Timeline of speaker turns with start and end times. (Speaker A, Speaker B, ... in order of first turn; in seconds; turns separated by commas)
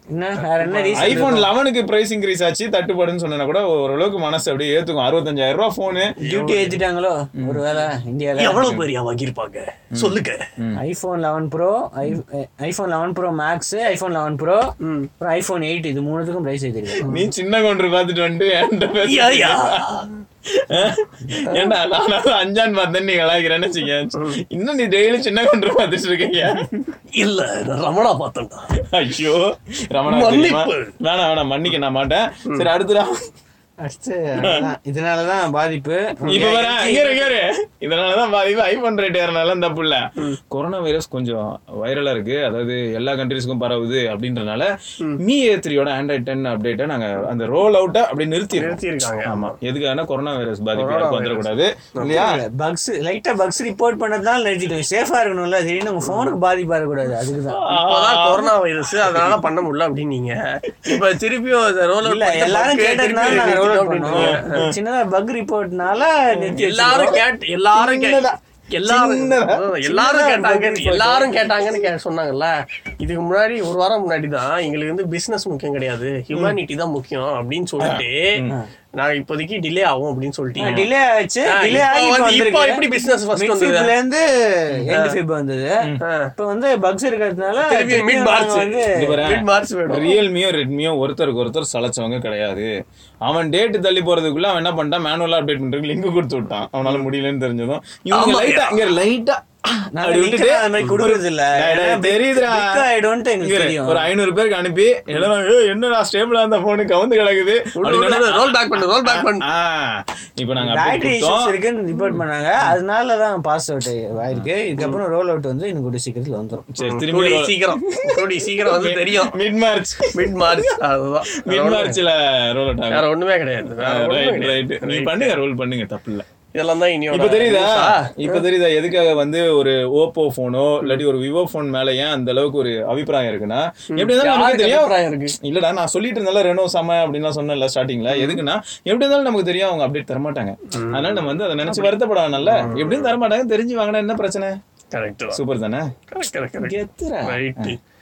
Speaker A: 0.1-1.5, Speaker B: 0.4-1.4, Speaker C: 0.9-6.2, Speaker A: 6.2-8.7, Speaker B: 6.2-6.8, Speaker C: 7.4-7.6, Speaker B: 8.4-10.4, Speaker C: 8.6-8.8, Speaker C: 9.9-10.8, Speaker A: 10.8-14.6, Speaker A: 15.2-17.3, Speaker C: 17.0-19.8, Speaker B: 19.0-20.1, Speaker C: 20.5-26.7, Speaker B: 27.1-28.7, Speaker C: 28.8-33.2, Speaker B: 30.1-30.9, Speaker A: 33.8-37.2, Speaker C: 34.4-34.7, Speaker C: 36.3-44.7, Speaker C: 45.2-52.4, Speaker B: 48.5-49.5, Speaker B: 50.7-52.1, Speaker A: 52.0-57.7, Speaker C: 57.4-58.5, Speaker B: 57.9-64.6, Speaker C: 59.0-59.4, Speaker A: 62.0-67.2, Speaker C: 63.2-63.5, Speaker C: 64.1-64.8, Speaker C: 66.4-68.3, Speaker B: 66.6-78.4, Speaker C: 68.8-69.6, Speaker A: 69.8-71.3, Speaker C: 77.8-78.6, Speaker B: 79.0-80.8, Speaker A: 80.6-82.8, Speaker C: 80.6-80.9, Speaker B: 81.5-83.9, Speaker A: 83.3-85.8, Speaker B: 86.0-86.3, Speaker A: 86.4-89.2, Speaker B: 87.6-90.2, Speaker C: 88.9-92.7, Speaker C: 93.2-102.9, Speaker B: 98.1-98.7, Speaker A: 99.9-104.1, Speaker C: 103.4-111.5, Speaker B: 107.8-109.5, Speaker A: 110.6-116.7, Speaker C: 112.1-112.8, Speaker C: 116.7-120.7, Speaker B: 116.8-119.3, Speaker B: 120.1-122.0, Speaker C: 121.5-123.1, Speaker B: 122.9-125.3, Speaker C: 123.8-126.3, Speaker B: 126.5-128.4, Speaker C: 127.1-144.6, Speaker B: 133.9-135.3, Speaker B: 138.1-138.4, Speaker B: 140.7-143.1, Speaker B: 144.9-145.4, Speaker C: 145.3-145.9, Speaker B: 146.1-147.8, Speaker C: 146.6-147.7